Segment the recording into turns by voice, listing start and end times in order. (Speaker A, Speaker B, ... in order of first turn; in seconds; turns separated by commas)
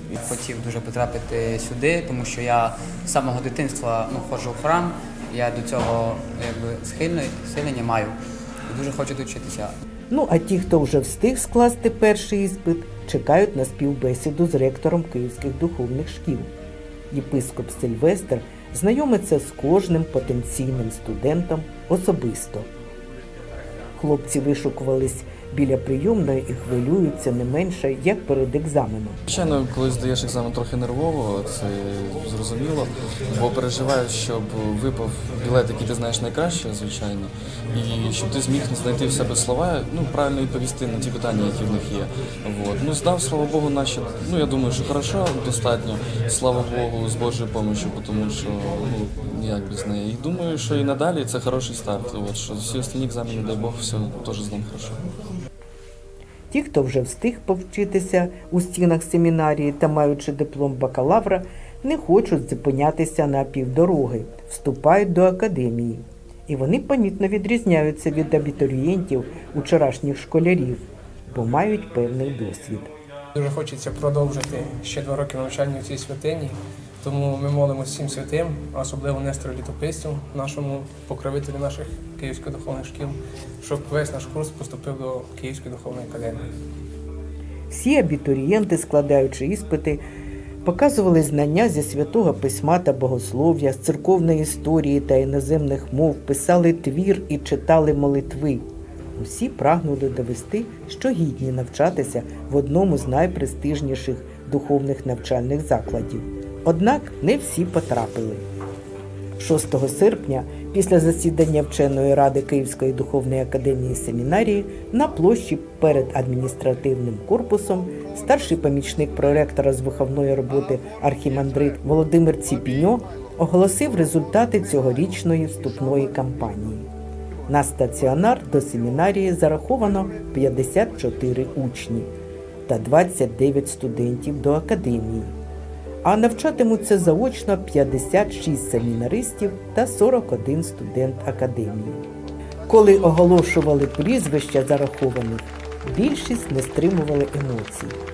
Speaker A: 0.2-8.2, Speaker A: 8.7-9.8, Speaker B: 10.1-16.5, Speaker B: 17.1-22.7, Speaker B: 24.0-29.2, Speaker C: 29.3-55.0, Speaker B: 56.5-72.9, Speaker D: 73.3-86.5, Speaker B: 87.7-90.0, Speaker B: 90.7-98.6, Speaker B: 99.2-108.4, Speaker B: 109.4-126.9, Speaker B: 127.5-132.1, Speaker B: 132.7-135.3, Speaker B: 136.0-142.0, Speaker B: 142.7-148.0